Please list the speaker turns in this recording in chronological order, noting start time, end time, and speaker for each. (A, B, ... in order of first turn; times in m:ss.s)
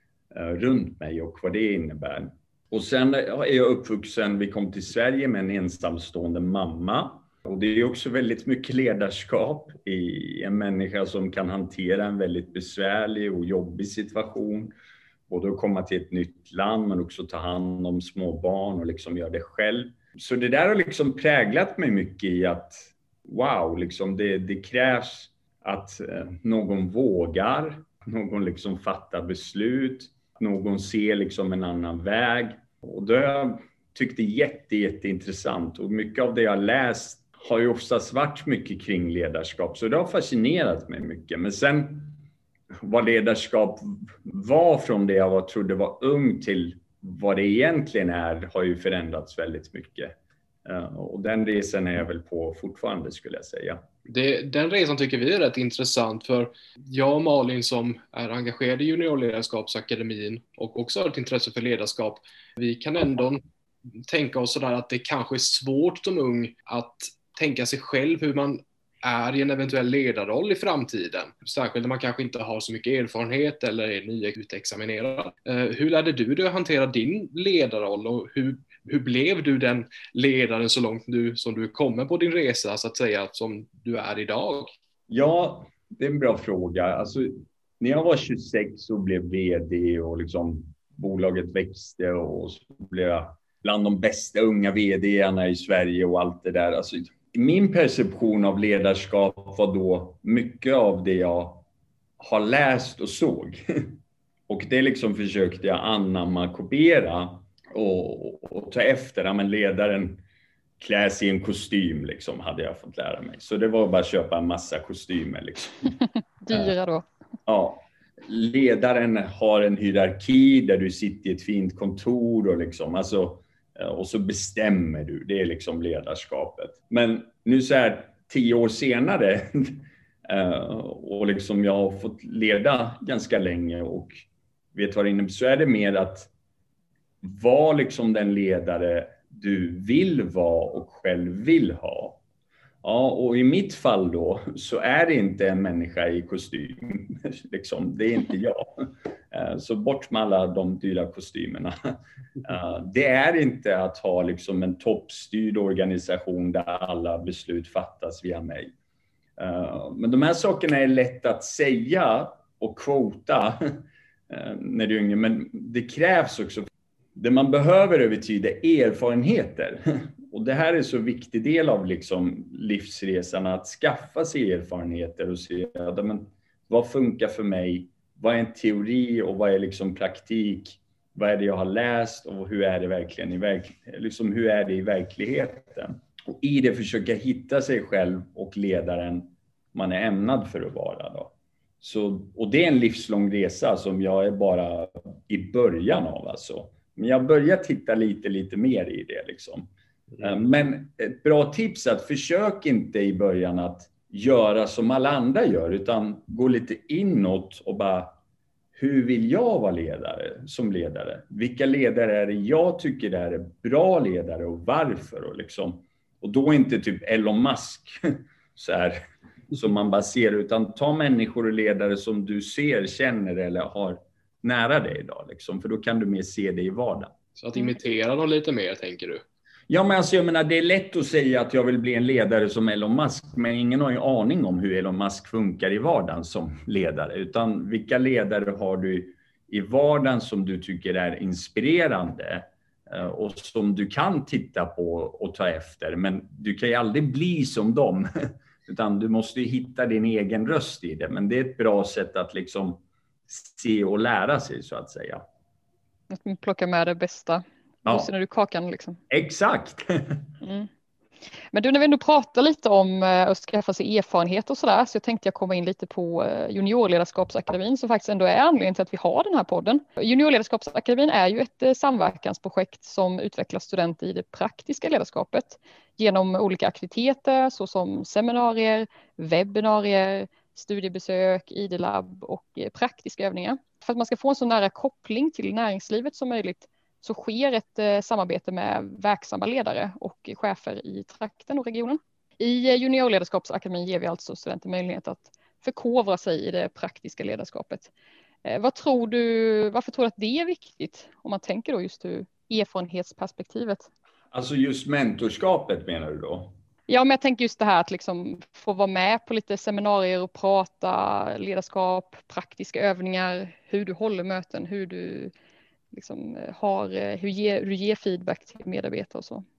0:00.3-0:14.7 A
0:15.3-0:42.2 A
0:42.8-0:53.8 A
0:54.1-1:03.4 B
1:04.1-1:24.8 B
1:25.1-1:41.6 A
1:42.2-1:44.0 A
1:44.5-1:50.2 A
1:50.8-1:55.9 A
1:56.4-1:57.1 C
1:57.5-2:16.3 A
2:17.2-2:22.2 A
2:22.8-2:38.7 A
2:39.4-3:28.2 A
3:28.8-3:47.1 A
3:47.4-3:49.2 B
3:49.7-4:15.2 A
4:16.1-4:19.0 C
4:17.8-4:18.1 A
4:19.1-4:20.2 A
4:20.4-4:20.7 C
4:21.5-4:57.9 C
4:58.4-5:03.9 C
5:04.3-5:06.5 A
5:06.9-5:15.3 C
5:15.9-5:19.4 C